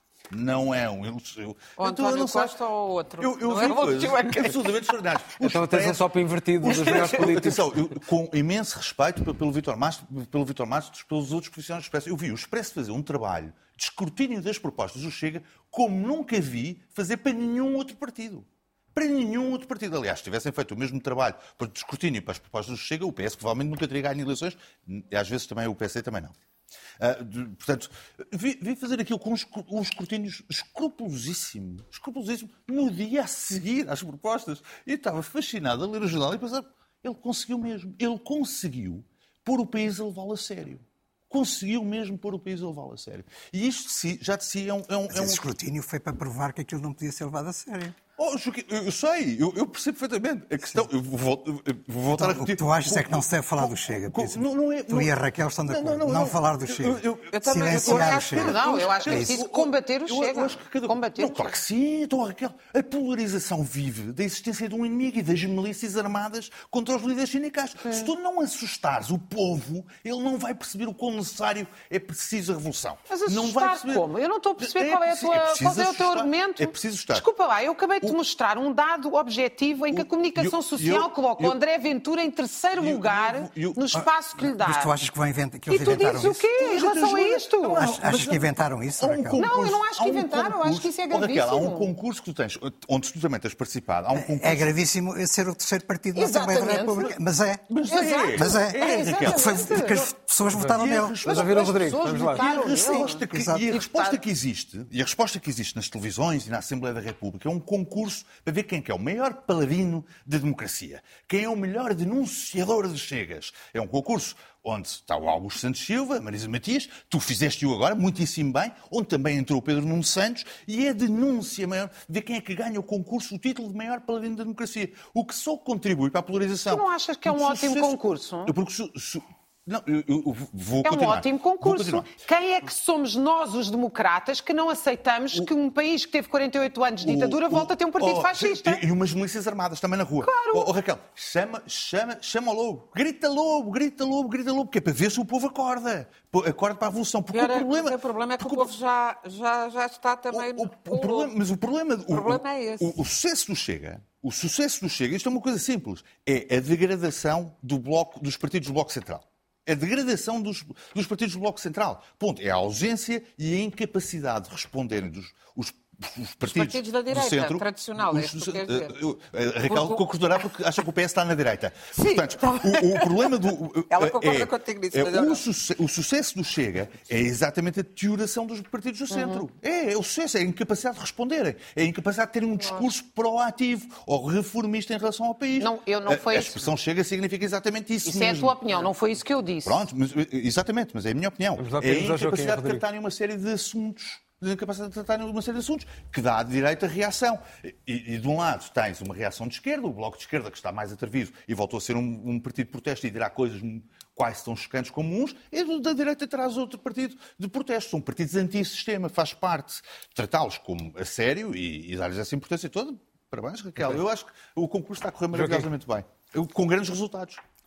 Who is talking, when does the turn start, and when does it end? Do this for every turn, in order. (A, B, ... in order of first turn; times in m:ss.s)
0:00.3-0:02.6 A
0:01.8-0:04.8 B
0:03.2-0:06.1 A
0:05.4-0:07.8 C
0:06.6-0:26.3 A
0:06.7-0:07.2 B
0:27.0-0:45.4 A
0:45.1-0:48.0 D
0:48.2-0:55.1 A
0:52.1-0:59.3 D
0:55.7-1:14.0 A
0:57.3-0:58.5 B
0:58.3-1:01.6 E
1:07.8-1:08.1 E
1:13.1-1:24.9 E
1:14.6-1:17.2 A
1:19.9-1:21.6 A
1:22.8-1:23.8 A
1:23.9-1:26.5 D
1:25.7-1:27.8 E
1:26.6-1:28.4 A
1:27.7-1:29.4 D
1:29.0-1:34.7 A
1:29.4-1:31.9 E
1:34.1-1:37.7 D
1:36.1-1:37.1 E
1:37.7-1:40.0 A
1:37.9-1:40.0 E
1:38.3-1:41.2 D
1:40.6-1:42.4 C
1:40.6-2:12.1 A
1:41.2-1:44.2 E
1:42.4-1:43.8 D
2:06.7-2:08.5 E
2:10.8-2:18.8 E
2:17.0-2:28.7 A
2:20.2-2:20.7 E
2:27.3-2:31.3 B
2:30.3-3:08.9 A
2:32.1-2:33.0 B
2:46.4-2:48.9 B
2:49.7-2:50.0 B
2:51.9-2:55.4 B
2:59.1-2:59.4 E
3:02.6-3:02.9 E
3:05.6-3:06.7 E
3:08.0-3:09.9 E
3:09.6-3:37.4 A
3:11.6-3:12.8 C
3:35.3-3:35.7 C